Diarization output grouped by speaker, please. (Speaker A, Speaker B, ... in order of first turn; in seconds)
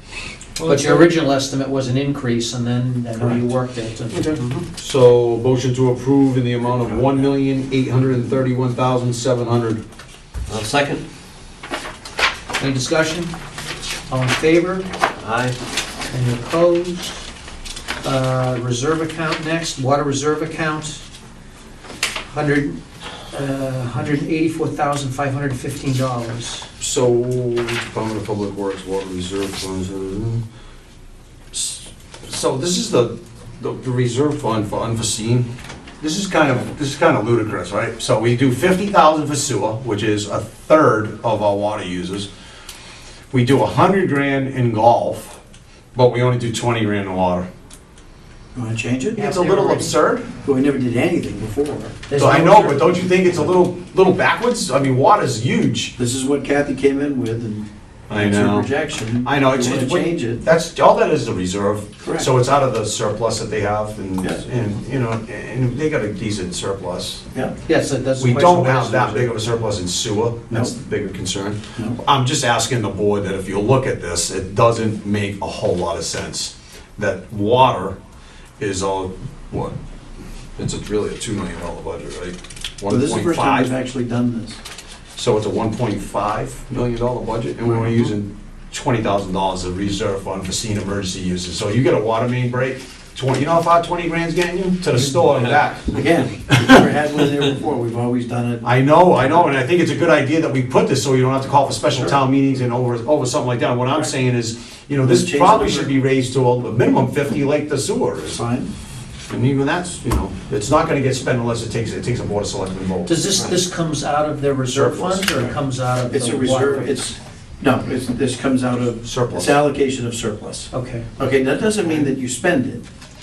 Speaker A: 0.6-4.4, 12.6-13.3, 14.1-14.9, 16.0-17.3, 18.0-21.0, 22.3-26.7, 49.2-50.0, 52.1-53.3, 67.7-69.5, 113.0-117.0, 120.7-121.1
Speaker B: 4.3-4.7, 6.8-7.2, 10.5-11.0, 15.2-15.6, 113.3-113.6
Speaker C: 4.7-9.8, 26.8-30.4, 31.5-42.3, 43.3-45.4, 46.0-47.5, 49.2-50.3, 52.2-55.9, 58.1-67.2, 68.2-78.0, 78.6-79.8, 80.6-83.7, 85.2-96.0, 98.6-108.4, 109.3-113.2, 114.7-115.5, 119.0-119.6, 121.8-122.1
Speaker D: 48.5-49.3, 50.4-52.1, 56.0-60.4, 62.0-62.3, 70.5-70.8, 82.9-84.6, 87.8-88.1, 95.9-99.5, 101.9-102.2, 105.0-105.9, 108.3-108.7, 116.1-122.8